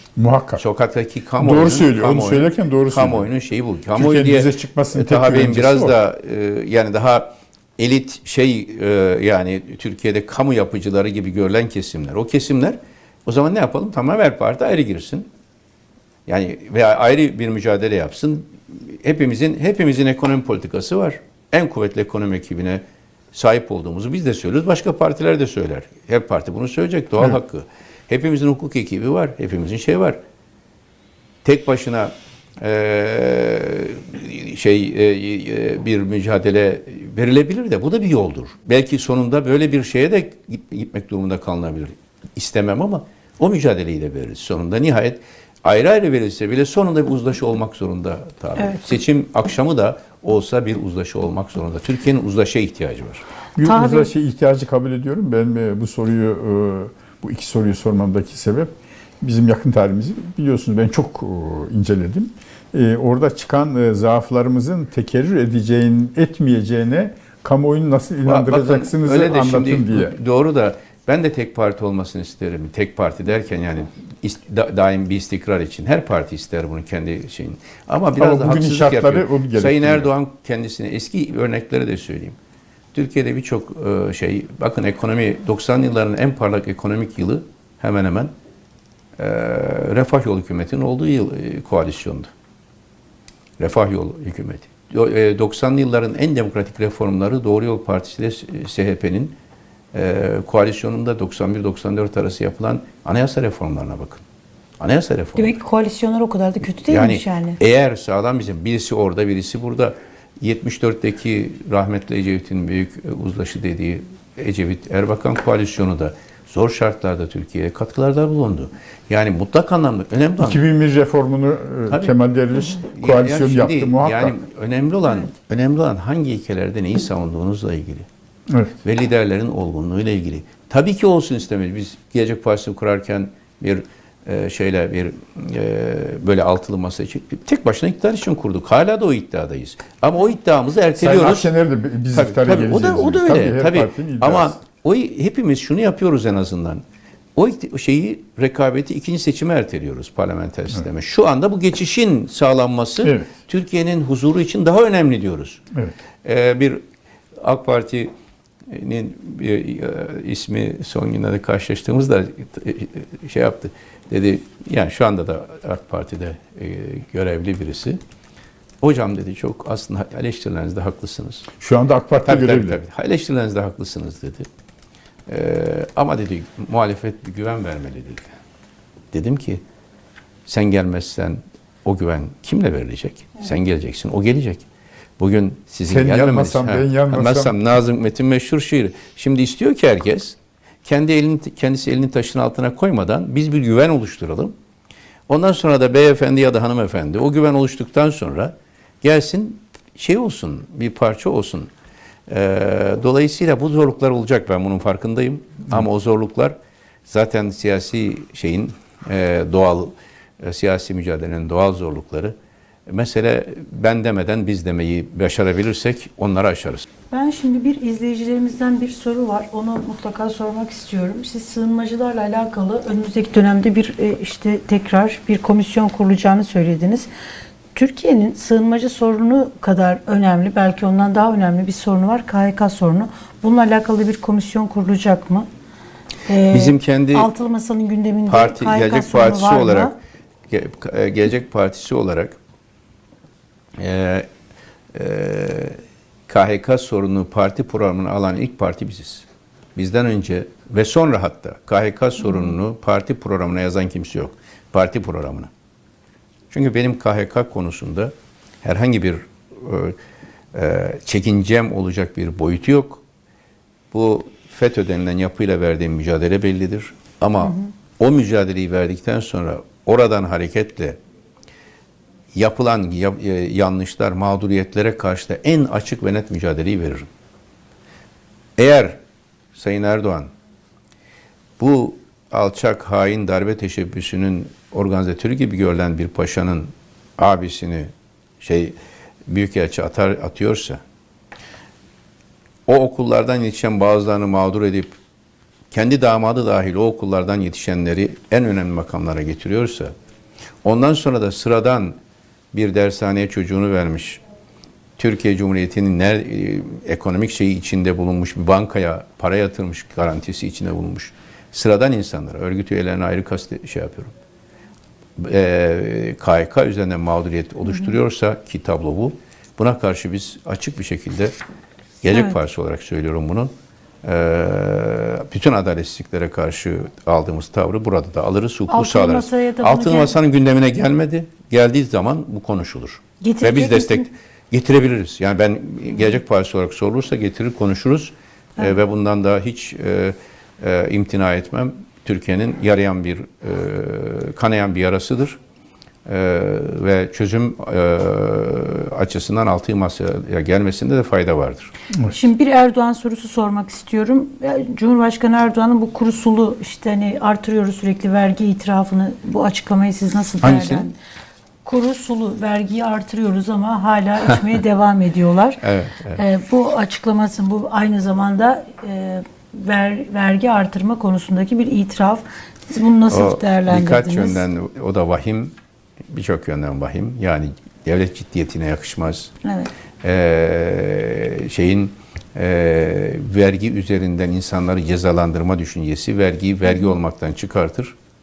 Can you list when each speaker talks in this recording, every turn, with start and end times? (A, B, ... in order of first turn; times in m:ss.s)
0:00.2-0:00.6 A
0:00.6-0:15.3 B
0:01.4-0:03.3 A
0:03.9-0:06.0 A
0:16.2-0:22.8 B
0:23.3-0:30.2 B
0:31.4-0:53.2 B
0:53.6-1:10.1 A
0:53.6-0:54.1 C
1:08.2-1:22.4 B
1:18.2-1:20.1 A
1:22.9-1:28.3 B
1:29.2-1:32.3 B
1:33.6-1:39.4 B
1:39.9-1:44.2 B
1:44.8-1:45.6 B
1:45.4-1:47.6 C
1:46.9-2:00.6 B
2:00.4-2:04.4 A
2:01.9-2:08.1 B
2:08.8-2:21.5 B
2:21.0-2:24.6 A
2:22.1-2:26.8 B
2:27.4-2:35.6 B
2:33.0-2:33.3 A
2:36.2-2:36.8 B
2:37.4-2:38.1 B
2:38.6-2:48.0 B
2:48.8-2:51.5 B
2:51.6-2:52.8 A
2:52.2-2:54.5 B
2:55.3-2:58.3 B
2:59.1-2:59.6 B
3:00.4-3:04.6 B
3:05.2-3:14.5 B
3:05.9-3:07.5 A
3:15.3-3:21.7 B
3:22.3-3:26.5 B
3:27.0-3:32.3 B
3:32.9-3:36.9 B
3:37.1-3:47.1 C
3:47.7-3:55.5 C
3:56.3-3:59.9 C
3:56.5-3:57.3 B
3:58.3-3:59.9 B
4:00.5-4:02.4 B
4:03.8-4:04.3 B
4:04.9-4:15.5 B
4:16.5-4:20.0 B
4:20.5-4:23.0 B
4:23.9-4:31.0 B
4:32.3-4:37.1 B
4:38.6-4:39.0 B
4:39.5-4:40.3 B
4:41.6-4:48.8 B
4:49.3-4:50.8 B
4:52.6-4:55.0 B
4:55.7-4:59.9 B
5:00.6-5:02.0 B
5:02.5-5:04.2 B
5:05.0-5:14.1 B
5:15.2-5:21.3 B
5:22.0-5:23.5 B
5:24.0-5:45.4 B
5:28.7-5:30.1 C
5:33.2-5:34.0 C
5:46.0-5:51.7 B
5:52.1-6:01.0 C
6:00.4-6:00.8 A
6:01.6-6:05.6 C
6:05.6-6:06.2 B
6:06.1-6:14.4 C
6:13.1-6:15.5 B
6:16.1-6:19.3 B
6:19.4-6:19.7 C
6:20.0-6:27.9 B